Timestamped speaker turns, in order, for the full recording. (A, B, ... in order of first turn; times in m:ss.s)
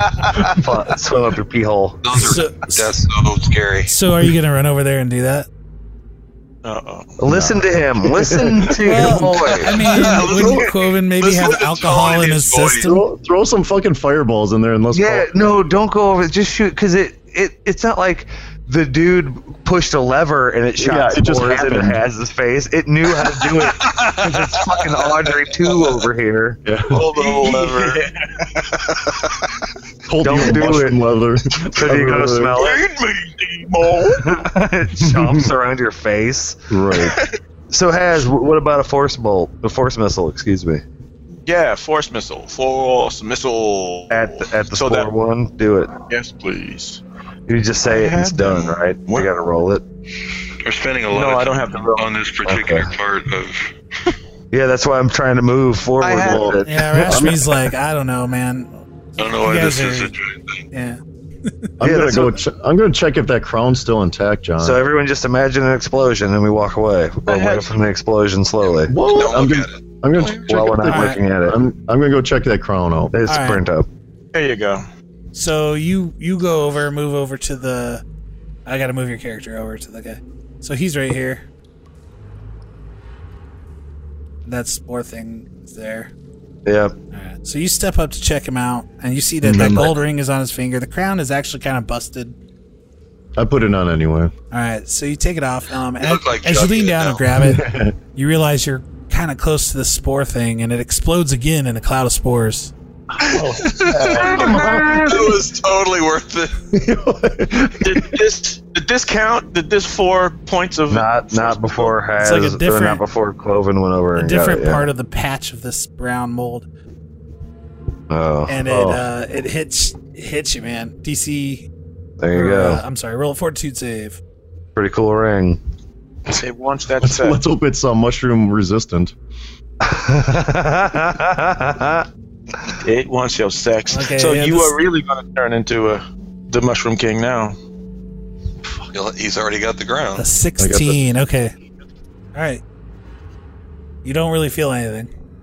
0:00.3-0:02.4 A
0:02.0-0:03.9 B
0:02.1-0:03.0 C
0:03.9-0:05.5 C
0:06.6-0:07.1 D
0:07.2-0:10.0 A
0:07.2-0:09.3 E
0:08.8-0:13.0 C
0:09.6-0:12.9 B
0:12.8-0:15.4 E
0:14.9-0:26.6 A
0:20.8-0:22.0 E
0:26.6-0:27.0 E
0:26.9-0:28.0 B
0:27.0-0:28.8 D
0:30.1-0:32.5 E
0:30.2-0:31.0 A
0:31.5-0:32.9 A
0:32.6-0:34.3 D
0:34.1-0:36.6 A
0:35.0-0:35.5 E
0:36.7-0:37.2 E
0:37.0-0:37.4 D
0:37.7-0:40.8 A
0:41.4-0:45.1 D
0:44.1-0:45.9 A
0:46.1-0:47.0 D
0:47.5-0:49.8 A
0:47.8-0:49.3 D
0:50.6-0:53.7 B
0:51.1-0:52.1 D
0:52.4-0:52.9 A
0:54.5-0:57.5 A
0:56.0-0:56.6 D
0:56.2-0:57.5 E
0:56.6-1:00.1 C
0:59.2-1:00.6 B
1:00.7-1:01.7 C
1:01.8-1:04.8 E
1:01.8-1:02.4 A
1:04.6-1:09.0 A
1:07.2-1:07.8 D
1:08.9-1:13.2 E
1:09.0-1:10.5 B
1:10.3-1:11.6 A
1:10.9-1:11.2 C
1:13.1-1:13.9 A
1:13.3-1:13.6 C
1:14.3-1:14.8 D
1:15.3-1:18.0 C
1:18.6-1:21.4 C
1:24.4-1:26.1 C
1:26.6-1:26.9 A
1:27.1-1:32.3 C
1:29.4-1:29.9 E
1:29.5-1:29.9 A
1:33.4-1:34.3 E
1:34.5-1:42.7 C
1:36.0-1:37.2 B
1:37.3-1:38.0 E
1:43.2-1:45.4 E
1:43.3-1:46.6 B
1:44.0-1:45.0 A
1:46.7-1:48.1 E
1:47.8-1:52.0 D
1:50.9-1:54.9 A
1:52.2-1:53.0 C
1:54.1-1:56.6 C
1:58.1-1:58.6 A
1:58.4-2:01.7 C
1:58.6-1:59.0 E
2:02.2-2:02.8 A
2:02.3-2:04.2 C
2:04.8-2:05.6 A
2:06.3-2:07.4 D
2:07.0-2:09.1 E
2:09.8-2:12.1 A
2:12.8-2:17.6 D
2:13.9-2:14.7 C
2:18.9-2:20.2 B
2:20.2-2:21.5 C
2:20.6-2:21.0 E
2:22.3-2:22.6 C
2:24.0-2:25.1 C